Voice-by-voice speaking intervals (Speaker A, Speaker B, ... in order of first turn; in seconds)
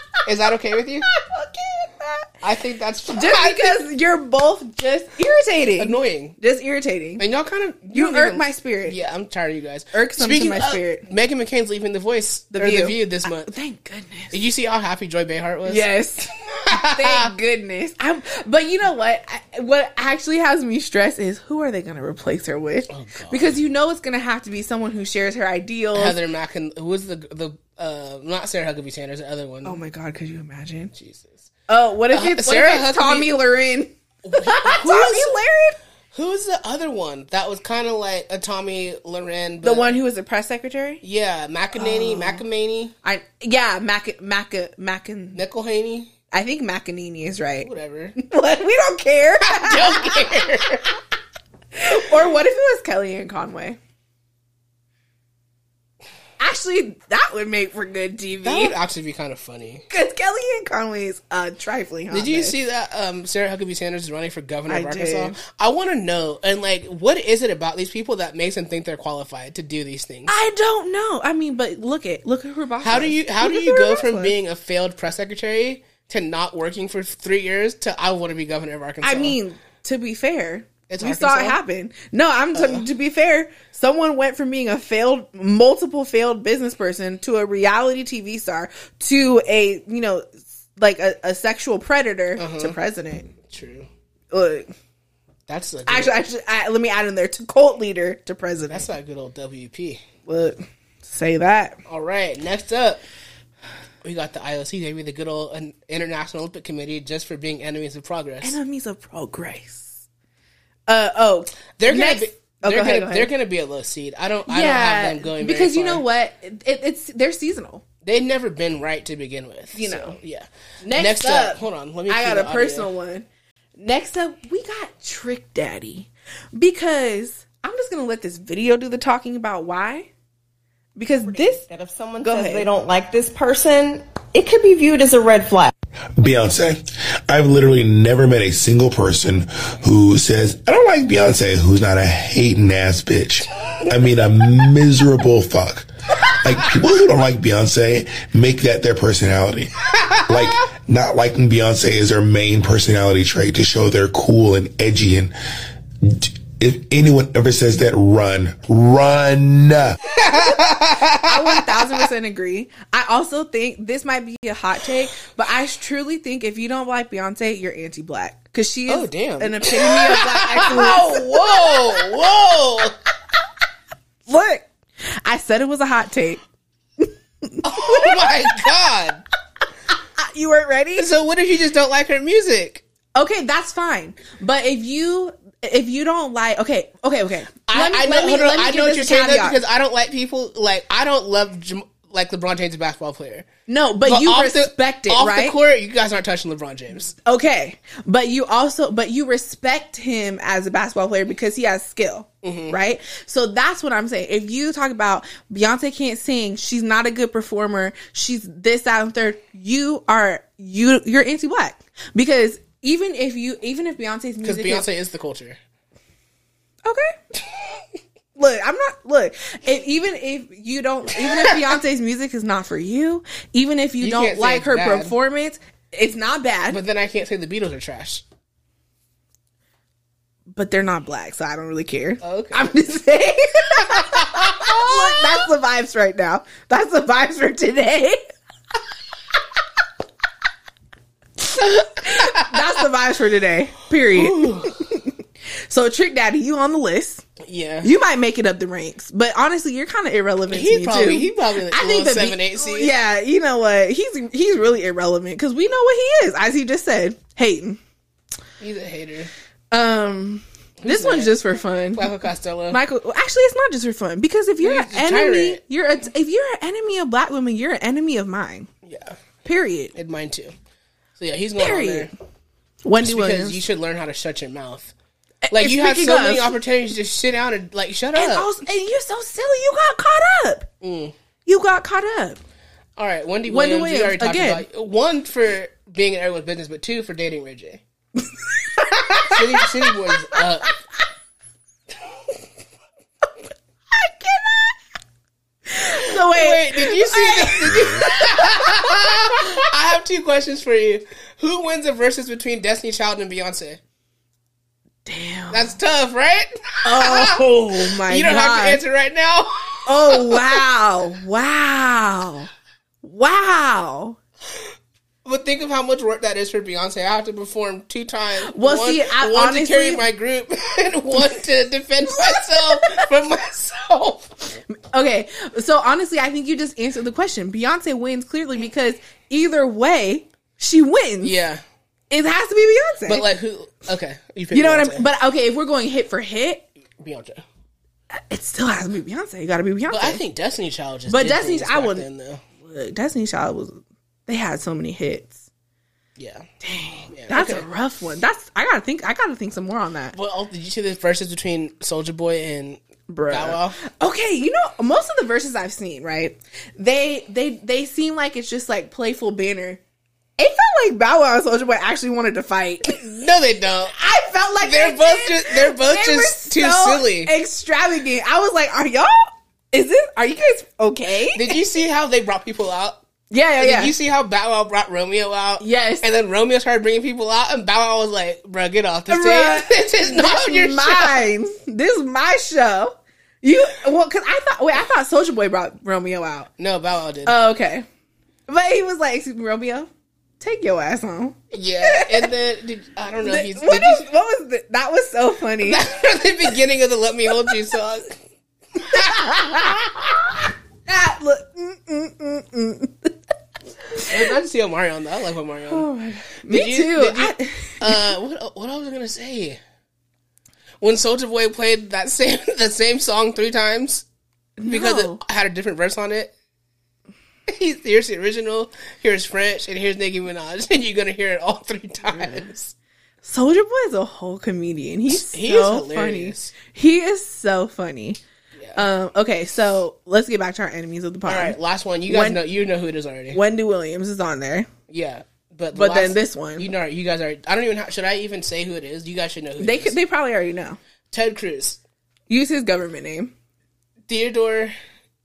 Speaker A: 0.2-1.1, 2.4-3.8, 5.8-6.3, 7.2-13.5, 14.3-15.9, 16.4-17.3, 22.9-23.6, 25.9-29.8, 30.9-31.5, 32.1-33.3, 34.2-35.4, 36.1-40.0, 41.0-42.9, 45.3-46.1, 47.6-48.1, 49.4-50.9, 58.4-59.9, 62.1-70.3, 72.8-79.4, 80.9-81.6, 82.5-82.8, 92.4-92.8, 93.4-93.9, 95.5-96.2, 98.7-100.0, 101.9-103.0, 104.0-108.6, 111.8-116.0, 118.0-122.9, 160.1-162.1, 168.9-172.9, 177.6-179.2, 180.9-182.8, 187.7-193.5, 194.0-197.1, 202.4-202.8, 214.4-215.6, 221.2-221.6, 224.0-225.1, 226.7-228.2, 232.2-232.7, 233.9-235.4, 242.1-242.8, 244.1-244.8, 247.4-247.9, 250.5-252.9, 258.6-259.3, 260.8-261.4, 261.9-262.8, 264.6-265.6, 268.8-269.2, 269.9-270.5, 271.2-272.1, 273.0-274.9, 275.5-278.5, 280.8-281.1, 283.0-287.8, 289.2-290.7, 295.9-303.8, 305.5-310.6, 315.2-324.6, 331.2-331.6, 333.1-335.1, 337.0-337.4, 339.9-342.4, 346.2-346.5, 347.1-347.7, 350.1-353.8, 363.0-363.9, 364.6-367.3, 371.3-373.0, 373.6-381.3, 386.6-387.4, 391.5-394.1, 395.6-398.2, 398.9-399.6, 404.0-405.9, 406.4-409.6, 410.8-414.0, 414.6-416.3, 417.5-422.7, 425.1-426.5, 428.6-428.8, 431.2-433.4, 434.9-439.9, 441.1-441.8, 444.1-444.7
Speaker B: 1.1-2.3, 3.1-7.2, 7.9-9.0, 9.9-11.1, 12.5-14.3, 15.7-26.2, 29.6-30.9, 31.7-35.8, 39.6-41.0, 41.7-42.4, 43.0-45.4, 46.3-50.6, 51.7-53.8, 56.4-58.8, 59.9-62.5, 64.7-65.4, 70.3-74.3, 79.0-93.3, 94.3-94.7, 95.9-98.9, 100.2-101.8, 108.4-110.0, 110.9-113.3, 114.5-117.8, 119.7-120.2, 120.8-123.2, 123.8-130.1, 131.0-131.6, 132.2-132.7, 160.2-171.9, 174.3-176.4, 177.0-178.7, 180.2-181.1, 183.1-189.6, 193.7-195.6, 197.2-214.9, 216.8-217.2, 218.3-226.8, 230.5-238.3, 241.4-247.2, 247.8-257.8, 259.7-262.1, 262.7-268.7, 269.4-269.9, 271.6-272.1, 272.8-273.6, 275.4-276.6, 278.1-280.7, 281.4-282.4, 283.5-284.6, 288.2-290.7, 293.9-294.7, 295.7-299.6, 305.1-305.8, 306.8-308.8, 309.9-312.5, 313.0-314.2, 318.4-320.0, 322.2-323.1, 324.7-331.4, 332.1-333.3, 334.5-336.7, 338.1-340.2, 341.1-342.1, 342.6-345.4, 346.6-350.1, 353.1-359.8, 360.4-363.1, 363.9-371.6, 373.3-373.9, 375.6-376.1, 379.1-386.5, 387.2-387.9, 388.5-392.3, 393.2-395.9, 398.8-400.0, 400.9-403.1, 405.7-408.1, 414.6-415.2, 422.1-422.4, 423.2-428.2, 428.7-432.4, 433.3-434.7, 435.7-436.7, 439.6-440.8, 442.3-443.3
Speaker C: 131.2-135.7
Speaker D: 136.2-155.3, 156.0-160.0